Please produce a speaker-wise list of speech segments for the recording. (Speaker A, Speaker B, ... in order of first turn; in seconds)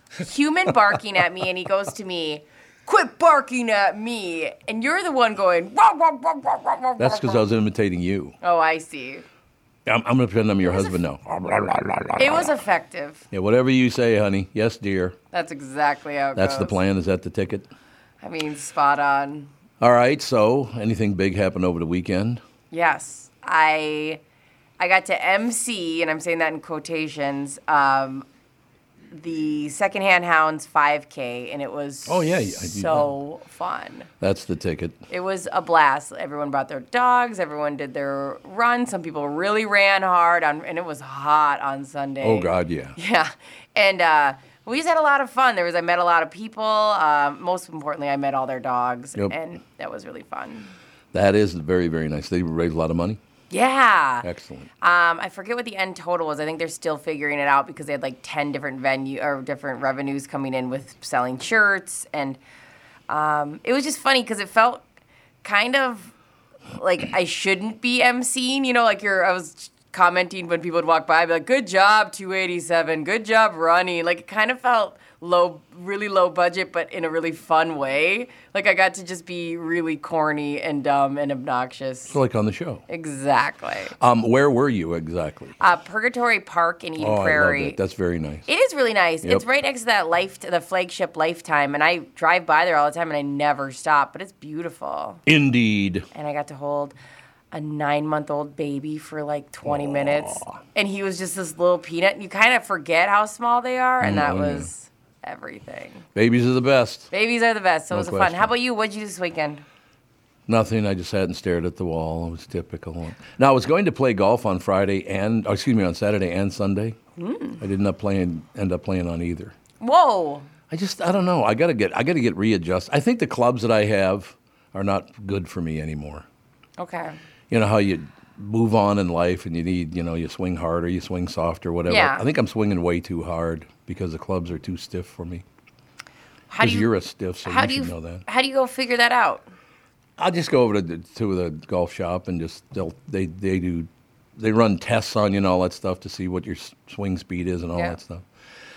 Speaker A: 0.2-7.4, 8.4-9.2, 10.7-11.0, 12.2-13.2, 15.3-16.8, 18.2-19.5, 22.7-24.2, 24.8-28.2, 29.1-34.1, 35.1-50.7, 53.5-54.3, 54.8-62.4, 63.1-64.8, 65.4-66.1, 66.7-82.2, 82.9-83.9, 85.6-87.8, 88.5-95.2, 96.1-96.9, 97.5-106.0, 107.1-109.6, 117.2-117.6, 119.8-120.5, 126.8-127.2, 131.9-132.2, 136.5-136.9, 137.4-139.5
Speaker B: 7.0-8.3, 9.8-12.5, 13.3-15.2, 16.4-17.7, 19.8-22.4, 32.1-33.1, 34.2-35.0, 42.2-43.0, 51.1-53.2, 54.2-54.7, 82.1-82.8, 84.0-85.5, 87.0-88.5, 95.2-96.1, 99.6-100.6, 104.0-104.7, 106.1-107.1, 107.9-108.5, 110.5-117.0, 117.6-119.5, 120.7-126.2, 127.5-135.4, 136.6-138.2, 140.2-148.2